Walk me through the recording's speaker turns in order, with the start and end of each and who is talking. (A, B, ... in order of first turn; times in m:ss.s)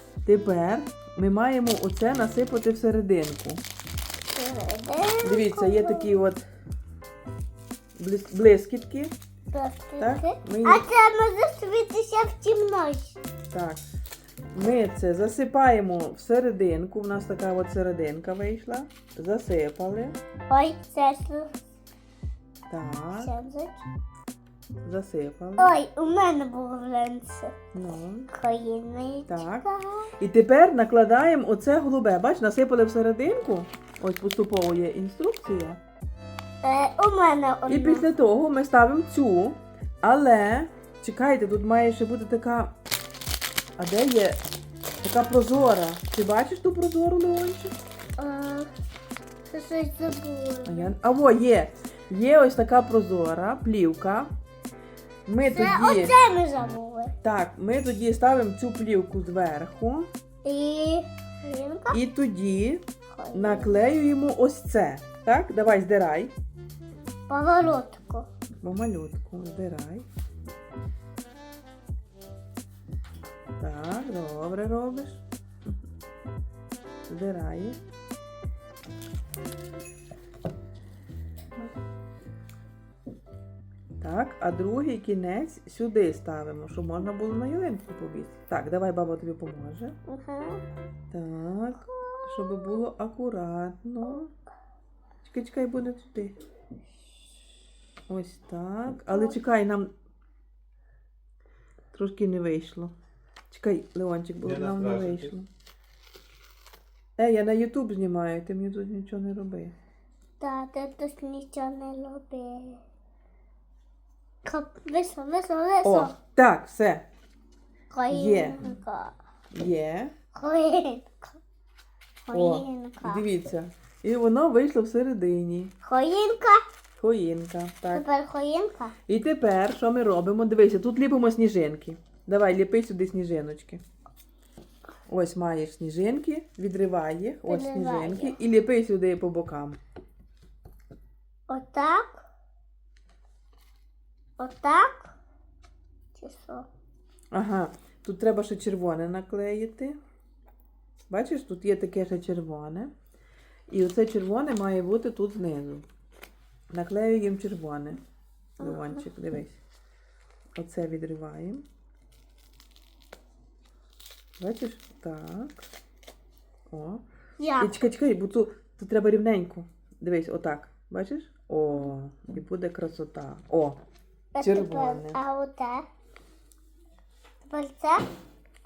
0:00.2-0:03.6 A
0:04.3-0:06.1 B
0:05.2-0:06.4 A
0:08.0-0:09.1 A
0:09.5-0:13.2 B
0:10.0-0:10.8 A
0:13.5-0:13.8 A
0:14.5-0:20.2 A
0:20.5-0:21.5 B
0:22.7-0:23.3 A
0:23.2-0:23.8 B
0:24.8-0:25.8 A
0:25.6-0:27.5 B
0:27.7-0:28.3 A
0:28.3-0:30.1 B
0:29.3-0:29.6 A
0:30.2-0:35.8 A
0:36.6-0:38.0 B
0:37.7-0:42.7 A
0:43.8-0:44.4 A
0:45.0-0:47.7 A
0:48.2-0:48.7 B
0:49.5-0:50.9 B
0:50.6-0:54.3 A
0:55.2-0:56.1 A
0:55.4-0:57.1 B
0:57.2-1:00.1 A
1:00.4-1:02.0 B
1:01.9-1:02.8 A
1:03.1-1:03.8 B
1:03.3-1:06.3 A
1:07.3-1:08.3 B
1:08.6-1:10.0 A
1:13.6-1:15.2 A
1:17.1-1:17.8 A
1:24.0-1:30.0 A
1:30.1-1:30.6 B
1:31.1-1:34.3 A
1:31.8-1:32.8 B
1:35.2-1:36.3 A
1:38.1-1:39.9 A
1:41.9-1:42.9 A
1:43.5-1:45.5 A
1:47.2-1:49.7 A
1:50.4-1:52.8 B
1:54.4-1:56.1 B
1:55.8-1:57.0 A
1:57.9-1:59.1 B
1:58.1-1:58.7 A
1:59.5-2:00.1 A
2:00.3-2:01.4 B
2:02.3-2:03.2 B
2:02.3-2:05.7 A
2:05.8-2:06.6 B
2:07.0-2:08.0 A
2:07.9-2:09.0 B
2:09.1-2:13.8 A
2:15.1-2:19.8 A
2:17.5-2:18.4 B
2:21.5-2:22.2 B
2:24.4-2:25.2 B
2:26.2-2:26.7 B
2:27.3-2:30.0 A
2:31.1-2:32.9 A
2:33.7-2:35.8 A
2:36.7-2:38.0 A
2:38.6-2:39.6 A
2:38.6-2:39.0 B
2:40.6-2:41.6 A
2:44.4-2:45.6 A
2:46.7-2:47.0 A
2:47.4-2:47.8 B
2:47.6-2:53.8 A
2:54.3-2:55.9 B
2:54.4-2:55.2 A
2:57.5-2:58.0 B